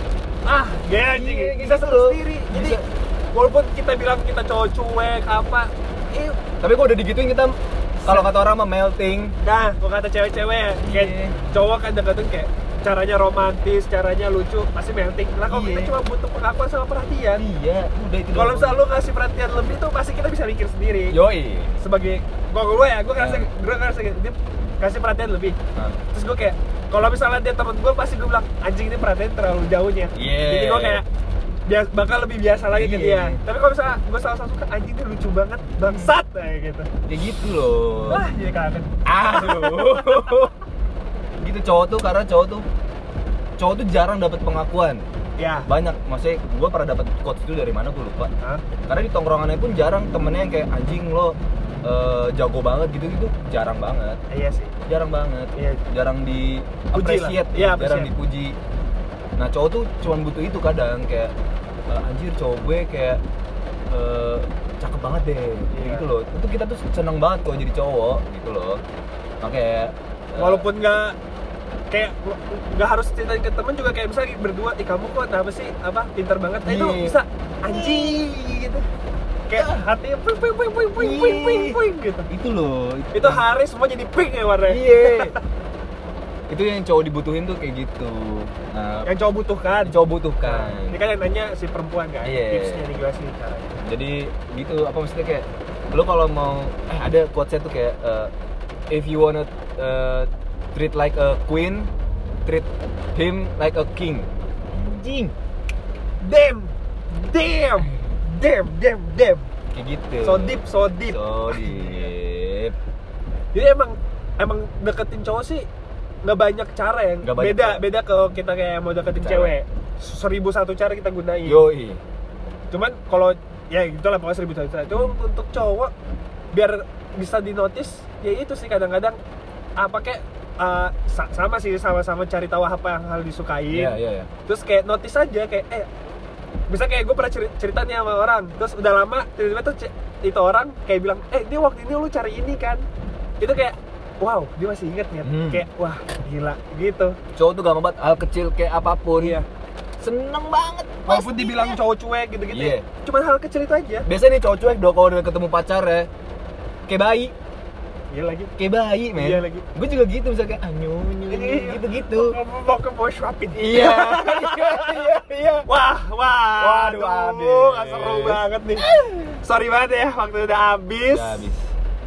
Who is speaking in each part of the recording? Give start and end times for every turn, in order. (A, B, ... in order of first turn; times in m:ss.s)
0:00.4-0:06.4 A
0:01.0-0:02.8 B
0:06.6-0:09.4 B
0:08.0-0:08.3 A
0:09.4-0:17.4 A
0:10.8-0:11.4 B
0:15.5-0:15.9 B
0:17.3-0:18.8 B
0:18.3-0:21.2 A
0:21.1-0:21.8 B
0:21.8-0:25.6 A
0:23.2-0:23.5 B
0:25.7-0:26.0 B
0:26.1-0:31.0 A
0:30.1-0:31.0 B
0:31.7-0:36.9 A
0:32.7-0:33.4 B
0:35.8-0:36.1 B
0:37.0-0:38.2 B
0:38.1-0:40.5 A
0:39.0-0:40.5 B
0:41.4-0:42.6 B
0:43.6-0:45.0 B
0:45.4-0:45.7 A
0:45.6-0:48.3 B
0:48.4-0:48.6 A
0:48.9-0:54.2 B
0:54.3-0:54.8 A
0:54.8-0:58.6 B
0:55.6-0:55.8 A
0:56.9-0:58.1 A
0:59.4-1:01.3 B
1:01.9-1:03.2 B
1:03.9-1:08.8 B
1:05.7-1:06.0 A
1:09.4-1:10.7 B
1:10.4-1:11.2 A
1:11.9-1:18.8 A
1:16.6-1:18.3 B
1:19.5-1:22.3 A
1:21.0-1:23.4 B
1:23.1-1:25.4 A
1:24.7-1:25.3 B
1:26.5-1:29.1 B
1:29.0-1:33.8 A
1:29.8-1:31.0 B
1:32.2-1:32.8 B
1:33.8-1:38.3 B
1:38.9-1:41.9 B
1:42.4-1:45.3 B
1:46.2-1:49.5 A
1:49.7-1:52.8 B
1:50.2-1:52.1 A
1:53.5-1:55.6 A
1:56.2-2:01.6 A
1:57.2-1:57.8 B
1:59.1-1:59.6 B
2:01.4-2:02.0 B
2:02.7-2:05.9 A
2:06.5-2:09.2 A
2:09.8-2:13.9 A
2:13.7-2:14.3 B
2:14.4-2:15.9 A
2:16.7-2:22.8 A
2:23.4-2:27.2 A
2:25.2-2:25.7 B
2:27.3-2:29.4 B
2:29.2-2:29.4 A
2:30.0-2:31.8 B
2:31.1-2:34.1 A
2:32.5-2:32.8 B
2:34.0-2:36.1 B
2:36.9-2:37.3 B
2:38.1-2:38.5 A
2:38.6-2:42.4 B
2:39.1-2:39.7 A
2:41.3-2:45.0 A
2:43.5-2:45.6 B
2:45.7-2:51.5 A
2:46.6-2:49.1 B
2:51.1-2:51.7 B